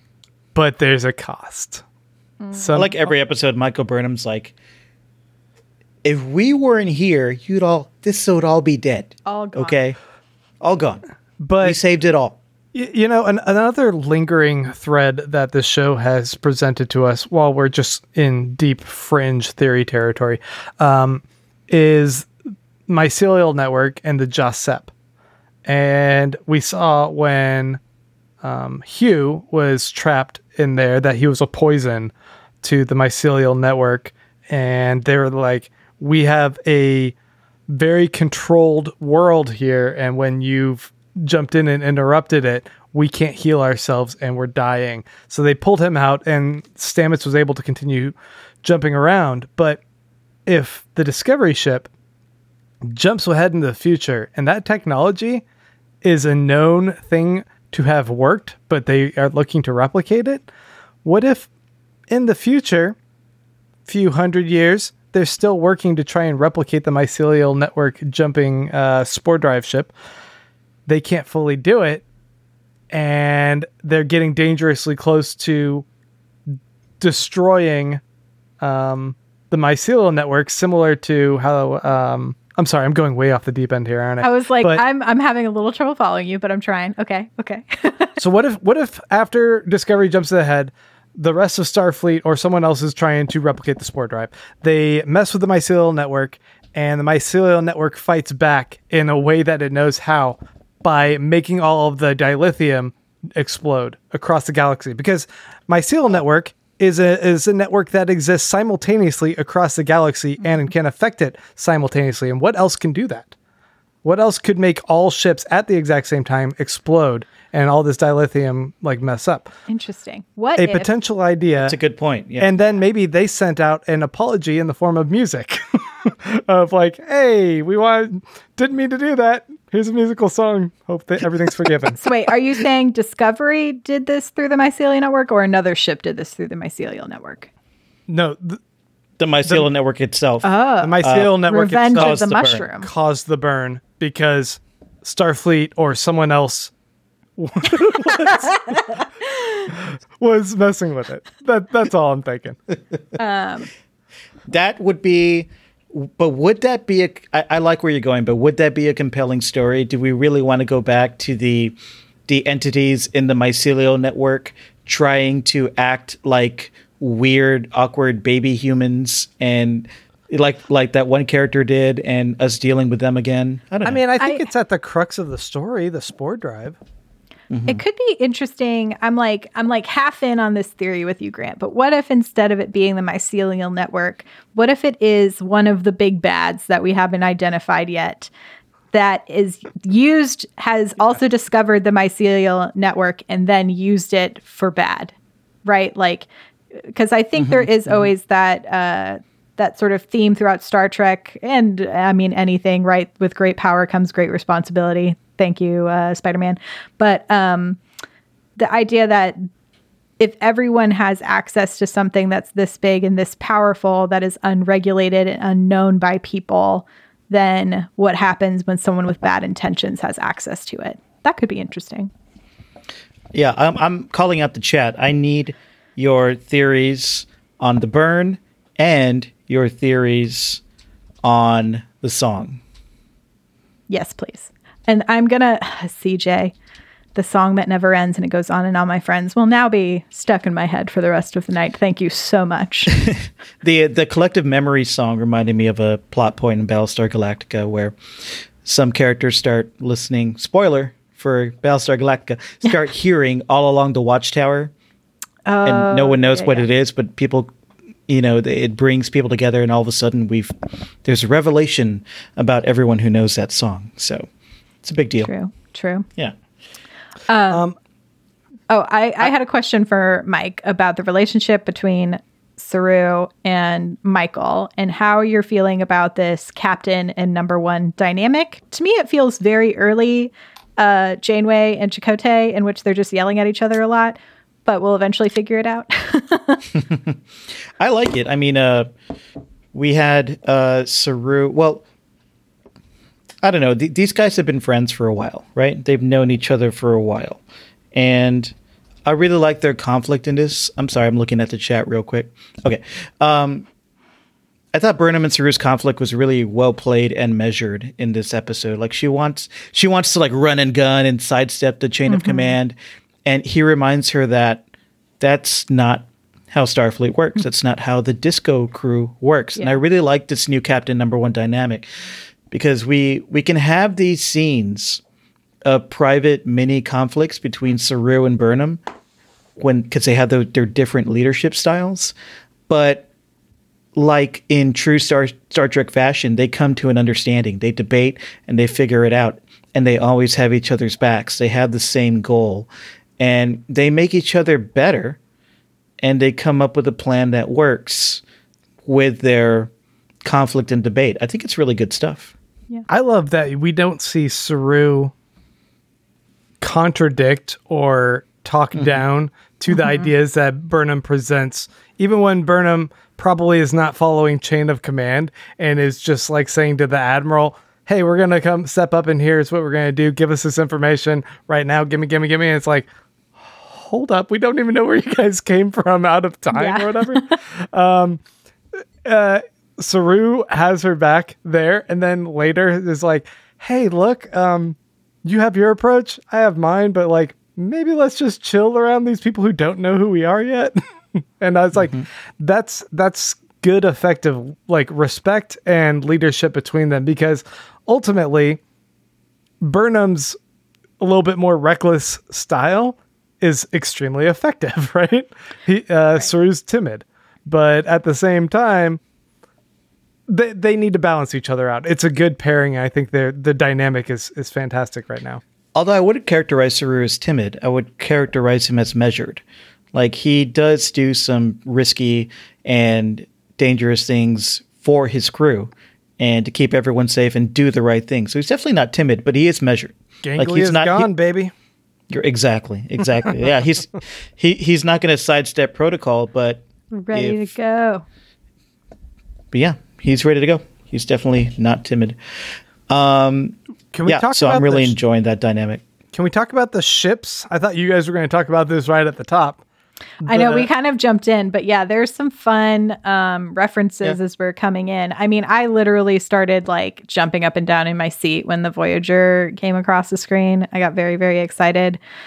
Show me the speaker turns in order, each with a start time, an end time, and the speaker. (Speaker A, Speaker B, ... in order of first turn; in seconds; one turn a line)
Speaker A: 0.5-1.8
Speaker B: 2.4-2.8
Speaker A: 2.5-3.0
Speaker C: 2.7-4.5
Speaker C: 6.0-10.0
Speaker B: 9.2-9.8
Speaker C: 10.6-11.0
Speaker A: 11.4-11.8
Speaker C: 11.6-12.4
Speaker A: 12.7-22.3
Speaker A: 22.9-24.9
Speaker A: 25.6-27.8
Speaker A: 28.4-32.1
Speaker A: 32.6-37.1
Speaker A: 37.7-49.8
Speaker A: 50.5-51.9
Speaker A: 52.9-55.4
Speaker A: 56.0-60.4
Speaker A: 61.0-61.5
Speaker A: 62.1-63.0
Speaker A: 63.9-69.9
Speaker A: 70.9-72.0
Speaker A: 72.9-75.8
Speaker A: 76.5-78.0
Speaker A: 78.6-84.8
Speaker B: 84.2-88.2
Speaker A: 88.2-113.3
Speaker A: 114.0-119.5
Speaker B: 119.7-120.9
Speaker A: 120.6-121.8
Speaker C: 121.6-122.5
Speaker A: 122.4-132.0
Speaker B: 132.0-137.5
Speaker A: 138.1-138.6
Speaker C: 139.2-140.5
Speaker B: 140.4-142.9
Speaker A: 140.8-142.2
Speaker C: 141.0-141.4
Speaker C: 141.9-142.7
Speaker A: 142.8-146.7
Speaker A: 147.4-149.0
Speaker B: 149.3-149.7
Speaker A: 149.7-152.6
Speaker B: 153.2-153.7
Speaker C: 154.5-161.8
Speaker C: 162.3-174.0
Speaker A: 173.8-176.8
Speaker C: 177.5-177.8
Speaker B: 177.7-188.3
Speaker B: 188.9-195.1
Speaker B: 195.6-196.3
Speaker B: 196.9-207.8
Speaker B: 208.6-209.4
Speaker B: 210.2-222.1
Speaker C: 223.3-230.6
Speaker C: 231.2-232.6
Speaker B: 233.9-236.5
Speaker B: 237.1-243.1
Speaker C: 243.6-254.7
Speaker B: 255.4-256.6
Speaker C: 255.6-257.5
Speaker C: 258.1-260.5
Speaker C: 261.0-264.3
Speaker C: 264.8-265.3
Speaker B: 265.2-266.1
Speaker B: 267.3-267.6
Speaker B: 268.7-286.7
Speaker C: 286.9-287.1
Speaker C: 287.8-288.9
Speaker C: 289.7-291.8
Speaker C: 293.4-297.4
Speaker C: 297.9-298.5
Speaker C: 299.1-303.7
Speaker C: 304.7-314.6
Speaker B: 312.1-312.5
Speaker C: 315.2-321.9
Speaker C: 322.5-325.0
Speaker C: 325.6-328.8
Speaker C: 329.6-332.1
Speaker C: 332.7-333.1
Speaker C: 333.9-342.7
Speaker C: 343.2-345.2
Speaker C: 346.0-348.2
Speaker C: 348.8-349.7
Speaker C: 350.2-352.3
Speaker A: 352.9-355.1
Speaker A: 356.6-372.9
Speaker C: 358.7-359.0
Speaker B: 359.8-360.1
Speaker A: 373.5-378.2
Speaker B: 376.5-377.4
Speaker A: 379.0-398.6
Speaker A: 399.6-400.4
Speaker A: 401.0-409.0
Speaker A: 410.3-415.4
Speaker C: 415.8-419.4
Speaker C: 419.9-431.1
Speaker A: 430.2-431.5
Speaker C: 432.1-437.5
Speaker B: 436.9-438.0
Speaker C: 439.5-442.2
Speaker C: 442.9-445.8
Speaker A: 443.9-444.9
Speaker A: 446.1-449.6
Speaker A: 450.2-450.7
Speaker B: 450.3-462.0